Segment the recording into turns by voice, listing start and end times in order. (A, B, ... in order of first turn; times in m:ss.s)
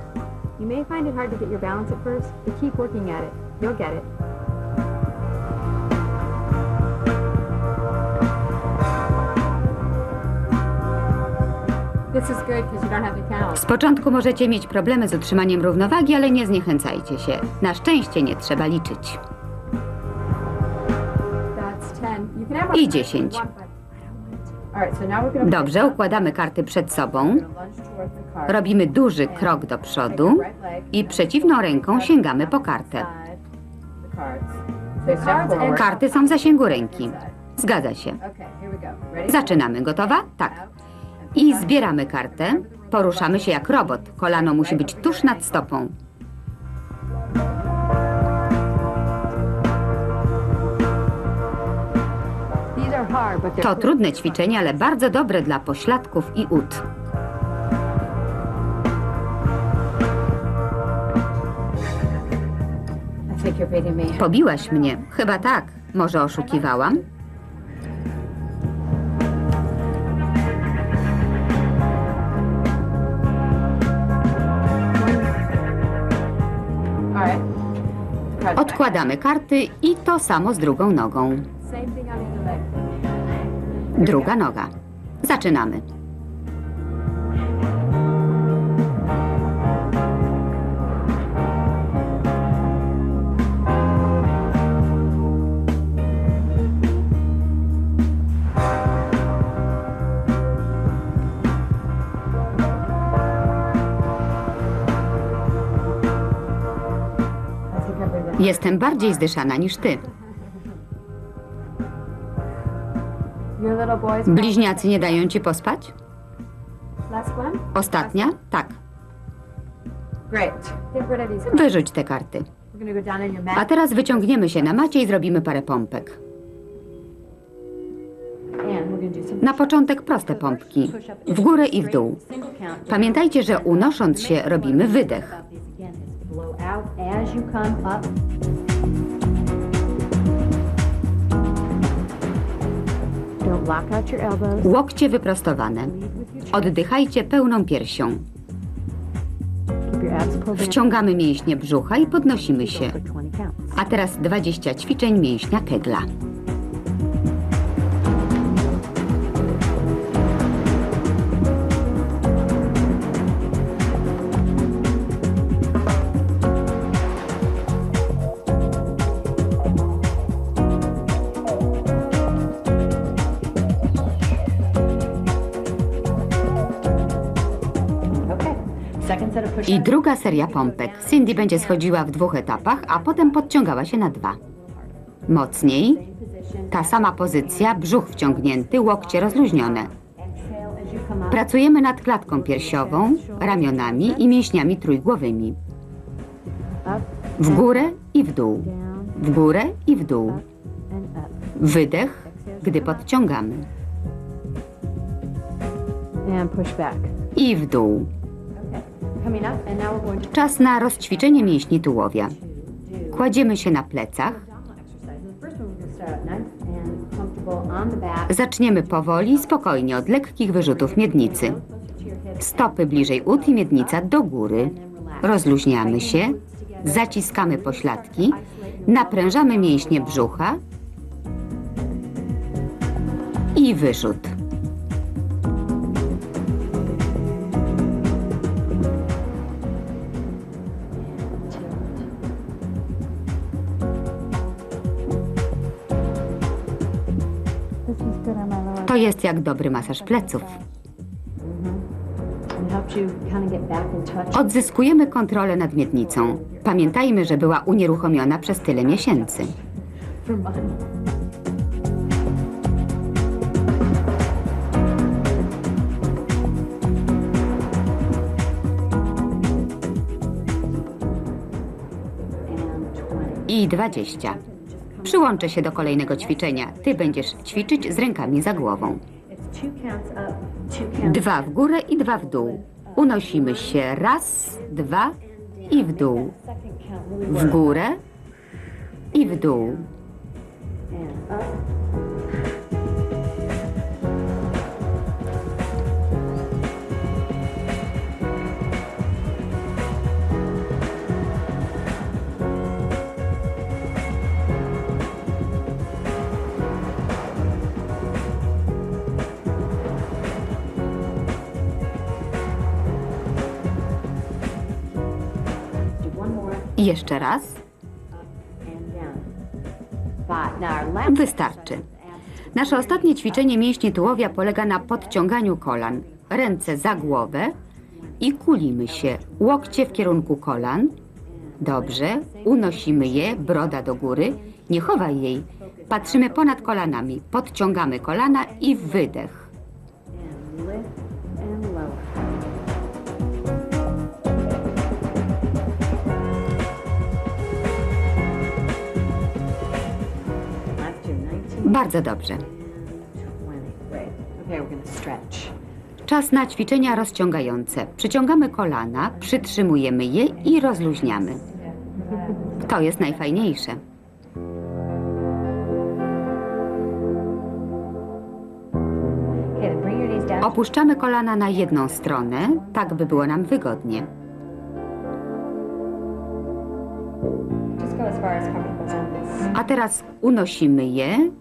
0:00.6-0:04.1 A
0:12.1-0:13.6 A
0:13.5-0:19.2 B
0:21.5-0:24.4 A
0:22.7-0:23.4 B
0:24.7-0:33.4 C
0:25.4-0:27.4 B
0:28.5-0:33.1 B
0:34.0-0:37.3 C
0:35.0-0:36.4 A
0:35.3-0:35.6 D
0:35.7-0:38.2 B
0:38.2-0:45.7 C
0:39.2-0:40.6 B
0:41.3-0:45.9 B
0:52.7-0:54.1 A
0:53.6-0:56.8 B
1:03.3-1:04.4 C
1:04.2-1:07.0 B
1:15.0-1:15.4 A
1:17.1-1:17.4 C
1:18.3-1:19.1 C
1:18.6-1:21.4 B
1:21.6-1:22.7 A
1:23.9-1:25.8 B
1:24.0-1:24.3 C
1:47.7-1:48.6 A
1:48.4-1:50.0 B
1:53.6-1:55.1 A
1:54.2-1:55.9 B
1:57.1-1:58.2 A
1:57.7-1:58.8 B
2:00.3-2:00.8 C
2:00.9-2:01.7 A
2:01.5-2:02.5 B
2:02.7-2:04.8 C
2:03.5-2:06.2 B
2:08.6-2:18.1 D
2:09.4-2:12.2 B
2:12.9-2:15.4 B
2:23.4-2:24.7 D
2:24.6-2:25.9 B
2:25.8-2:26.8 D
2:26.5-2:28.2 B
2:29.8-2:33.8 D
2:30.5-2:33.0 B
2:33.7-2:36.1 B
2:58.3-3:05.0 D
2:59.6-3:04.4 B
3:05.3-3:06.0 B
3:05.6-3:11.6 D
3:06.7-3:09.9 B
3:11.3-3:15.6 B
3:12.2-3:14.4 D
3:16.8-3:17.9 D
3:17.4-3:20.4 B
3:18.6-3:19.2 D
3:20.2-3:21.6 D
3:21.6-3:23.7 B
3:22.2-3:23.1 D
3:26.2-3:27.1 D
3:27.3-3:28.1 B
3:28.5-3:33.4 D
3:30.3-3:32.4 B
3:33.1-3:34.4 B
3:34.2-3:40.0 D
3:38.3-3:41.6 B
3:40.5-3:50.3 D
3:42.4-3:50.6 B
3:53.5-3:54.4 B
4:01.1-4:02.0 D
4:07.8-4:09.2 A
4:08.8-4:10.6 B
4:09.8-4:10.6 A
4:11.4-4:11.8 D
4:12.5-4:20.8 D
4:14.3-4:19.5 B
4:32.5-4:47.9 D
4:33.5-4:34.4 B
4:35.0-4:39.0 B
4:41.0-4:46.3 B
4:47.3-4:48.0 B
4:49.1-4:49.9 D
4:49.1-4:49.9 B
4:50.9-4:51.7 D
5:16.0-5:16.8 D
5:16.8-5:17.6 B
5:18.1-5:19.3 D
5:20.2-5:30.6 D
5:21.0-5:21.8 B
5:22.5-5:27.5 B
5:28.2-5:30.9 B
5:31.2-5:37.0 D
5:31.6-5:39.5 B
5:38.1-5:39.1 D
5:40.1-5:42.4 D
5:50.7-5:55.5 D
5:51.6-5:52.4 B
5:56.0-6:01.4 B
6:00.4-6:03.4 D
6:02.6-6:03.8 B
6:09.5-6:13.4 D
6:10.4-6:14.1 B
6:17.8-6:19.6 A
6:19.5-6:21.3 B